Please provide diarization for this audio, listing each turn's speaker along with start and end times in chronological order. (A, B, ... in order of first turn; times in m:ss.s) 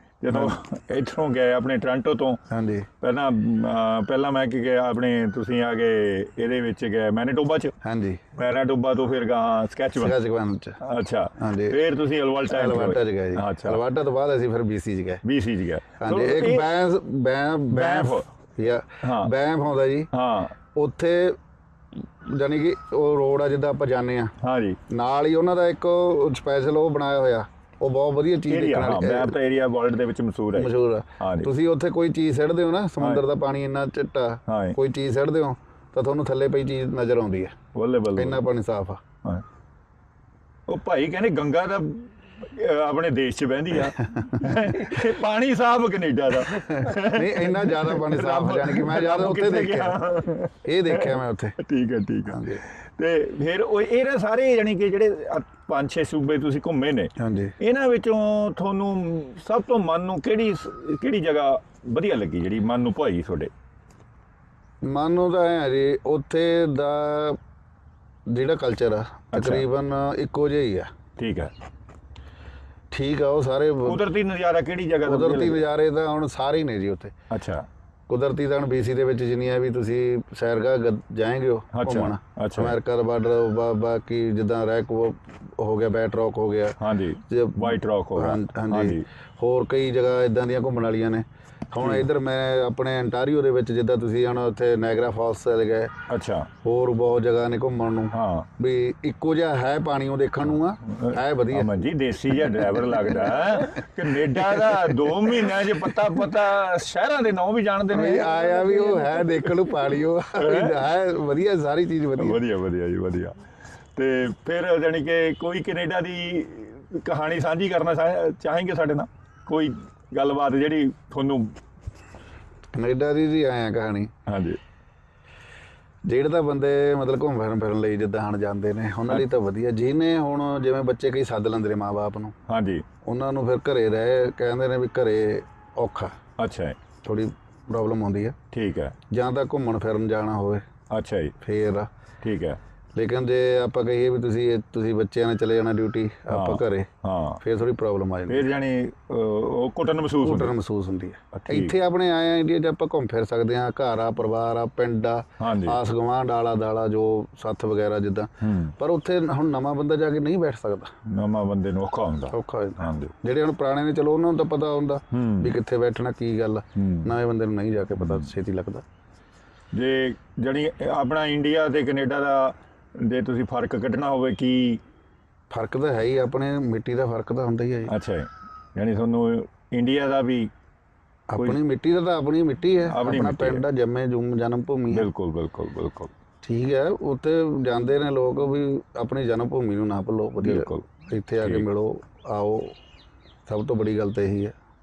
0:00.2-0:02.4 A
0:00.3-0:00.6 B
0:02.5-0:02.9 B
0:03.0-0:07.8 A
0:07.8-0:08.2 B
0:08.4-0:10.2 A
0:10.0-0:10.8 B
0:10.8-0:13.8 A
0:11.4-0:11.8 B
0:12.5-0:15.2 B
0:15.2-0:16.7 A
0:16.0-0:20.1 B
0:17.7-0:18.3 A
0:19.0-0:19.3 A
0:20.1-0:20.5 A
0:20.8-0:21.4 B
0:22.0-0:24.3 B
0:24.4-0:24.8 A
0:24.9-0:29.4 B
0:28.5-0:31.5 A
0:30.5-0:37.6 B
0:34.5-0:34.8 A
0:37.7-0:38.4 A
0:38.1-0:39.0 B
0:40.7-1:03.5 A
0:44.1-0:44.7 B
0:46.5-0:50.0 B
0:50.6-0:51.6 B
0:52.3-0:52.6 B
0:57.2-0:57.6 B
1:04.8-1:07.4 B
1:08.3-1:10.9 B
1:09.3-1:09.6 A
1:11.2-1:11.5 A
1:12.9-1:14.0 B
1:13.8-1:15.6 A
1:15.0-1:17.1 B
1:17.3-1:17.6 A
1:18.1-1:26.8 B
1:21.7-1:22.8 A
1:26.8-1:29.1 A
1:27.3-1:35.9 B
1:31.8-1:32.1 A
1:36.1-1:36.5 A
1:36.6-1:41.7 B
1:38.1-1:38.5 A
1:40.9-1:49.6 A
1:42.9-1:43.2 B
1:44.3-1:46.2 B
1:47.9-1:52.4 B
1:50.4-1:50.8 A
1:52.2-1:53.4 A
1:54.0-2:01.6 A
2:02.7-2:04.1 B
2:04.3-2:04.6 A
2:06.1-2:12.3 B
2:12.5-2:12.8 A
2:13.0-2:16.1 B
2:16.4-2:16.8 A
2:17.0-2:18.4 B
2:18.5-2:19.0 A
2:19.1-2:20.6 B
2:20.9-2:21.4 A
2:21.4-2:21.9 B
2:22.2-2:22.6 A
2:23.0-2:26.9 B
2:26.3-2:27.4 A
2:27.4-2:28.5 B
2:28.3-2:30.5 A
2:30.2-2:40.9 B
2:31.3-2:31.8 A
2:35.4-2:35.8 A
2:38.4-2:38.8 A
2:41.1-2:43.1 A
2:42.3-2:48.8 B
2:45.1-2:45.5 A
2:46.8-2:47.1 A
2:48.0-2:48.3 A
2:49.7-2:54.8 A
2:55.5-2:57.9 B
2:57.9-3:00.5 A
3:01.3-3:05.1 B
3:02.9-3:03.6 A
3:04.9-3:06.1 A
3:06.4-3:12.8 B
3:10.4-3:10.9 A
3:13.5-3:14.5 B